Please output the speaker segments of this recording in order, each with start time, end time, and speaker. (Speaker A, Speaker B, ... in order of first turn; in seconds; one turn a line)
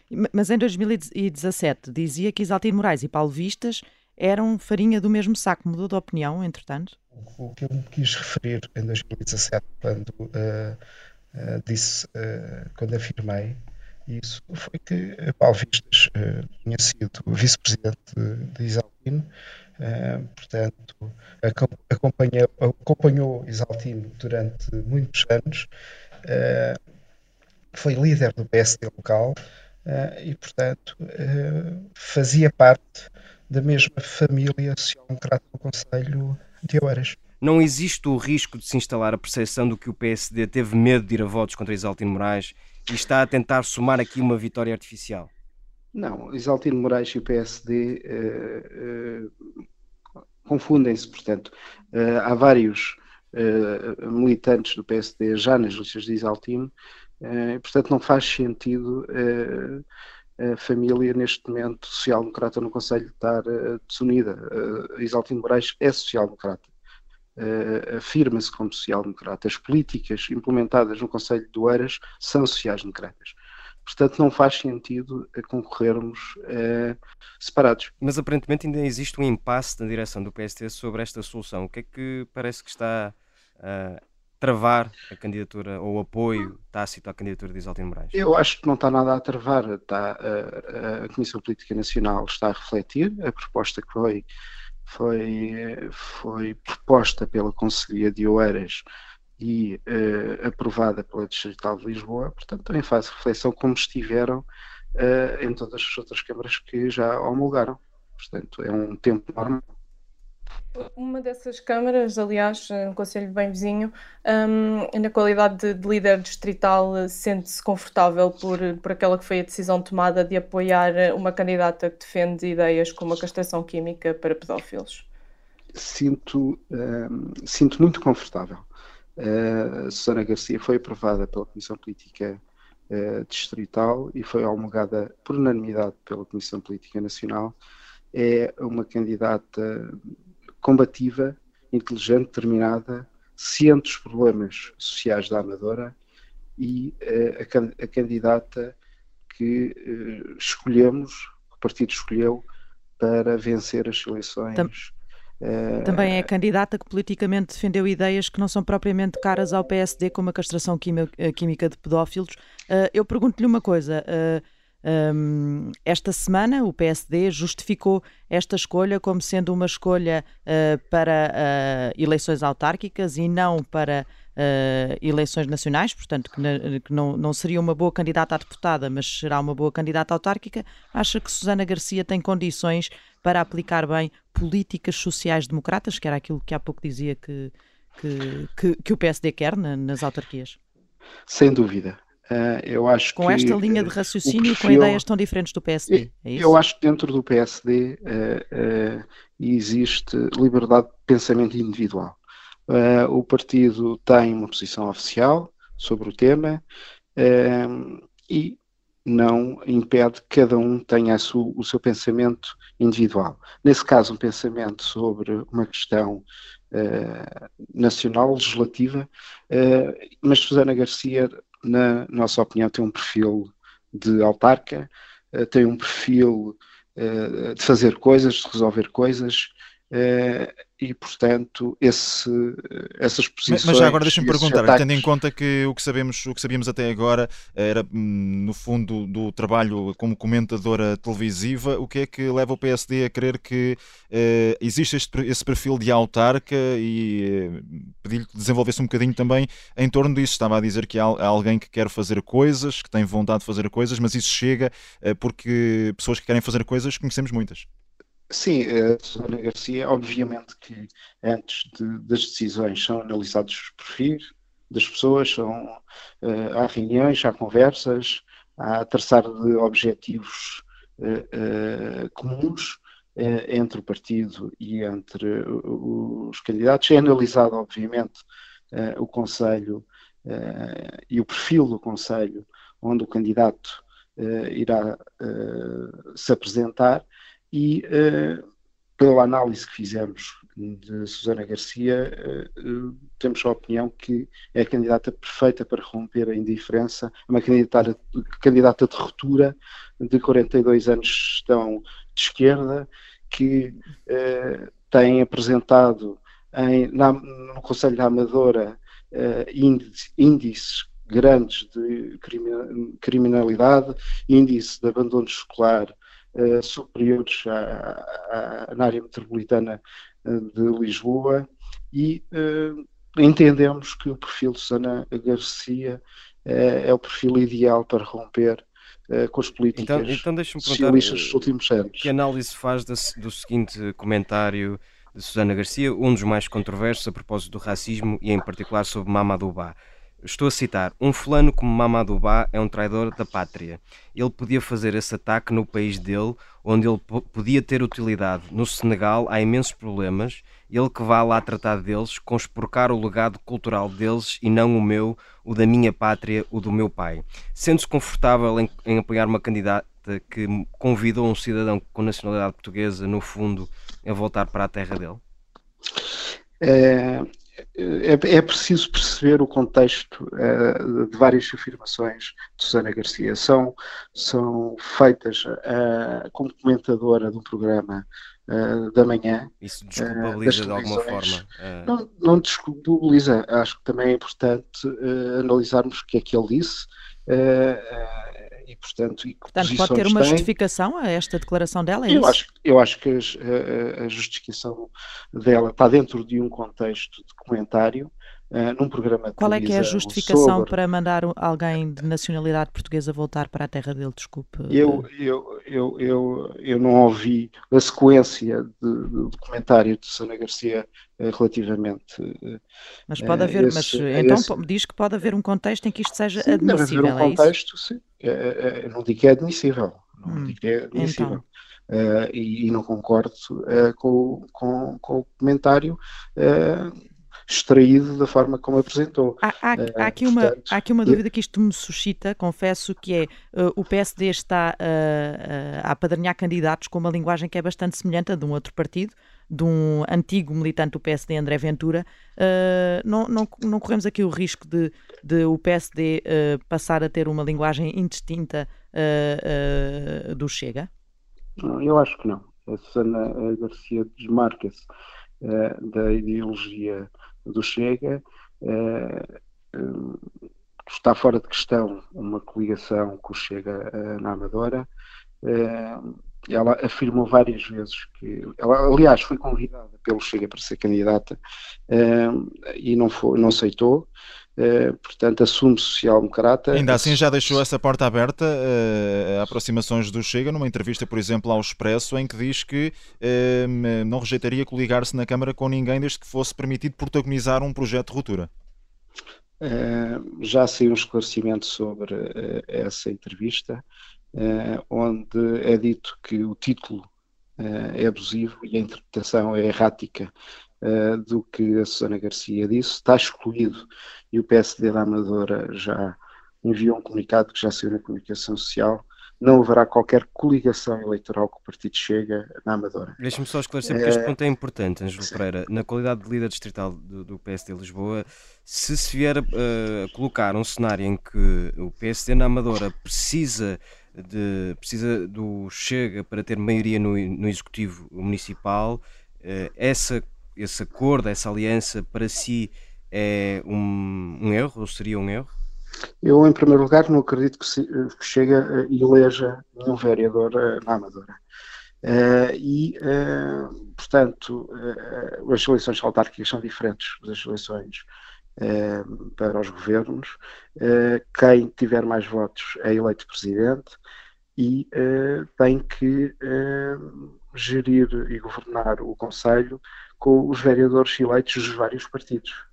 Speaker A: 0.1-7.0
Speaker B: 7.2-10.8
Speaker B: 11.3-19.3
Speaker B: 19.8-25.7
Speaker B: 26.3-26.8
Speaker B: 27.7-37.2
Speaker C: 37.4-45.3
Speaker B: 45.9-49.3
Speaker B: 50.5-59.8
Speaker B: 60.4-66.7
Speaker B: 67.4-77.9
Speaker C: 78.0-88.2
Speaker B: 88.1-94.3
Speaker B: 94.9-98.8
Speaker B: 99.4-109.6
Speaker D: 110.8-125.0
Speaker B: 125.8-128.7
Speaker B: 129.2-137.6
Speaker B: 138.1-140.0
Speaker B: 140.6-145.9
Speaker B: 146.6-148.8
Speaker B: 149.3-152.5
Speaker B: 153.0-156.3
Speaker A: 155.8-190.6
Speaker B: 191.3-195.0
Speaker A: 193.2-196.6
Speaker B: 195.9-206.6
Speaker B: 207.2-235.1
Speaker E: 233.5-257.7
Speaker B: 258.3-288.4
Speaker B: 289.0-332.1
Speaker C: 329.8-331.4
Speaker C: 332.0-365.2
Speaker B: 366.6-390.5
Speaker C: 379.6-381.9
Speaker A: 389.5-392.4
Speaker B: 392.1-400.8
Speaker A: 399.4-405.1
Speaker B: 404.7-412.6
Speaker A: 413.1-417.5
Speaker B: 413.2-414.5
Speaker B: 416.4-427.0
Speaker A: 420.2-421.4
Speaker B: 427.5-431.2
Speaker A: 429.4-450.9
Speaker B: 451.6-454.9
Speaker B: 455.4-460.2
Speaker B: 460.9-464.9
Speaker B: 465.4-477.6
Speaker E: 476.7-488.5
Speaker B: 489.6-493.8
Speaker B: 494.4-497.1
Speaker B: 497.6-513.2
Speaker C: 513.2-535.5
Speaker B: 513.9-514.3
Speaker B: 536.2-541.4
Speaker B: 542.0-548.1
Speaker B: 548.6-554.0
Speaker B: 554.6-562.6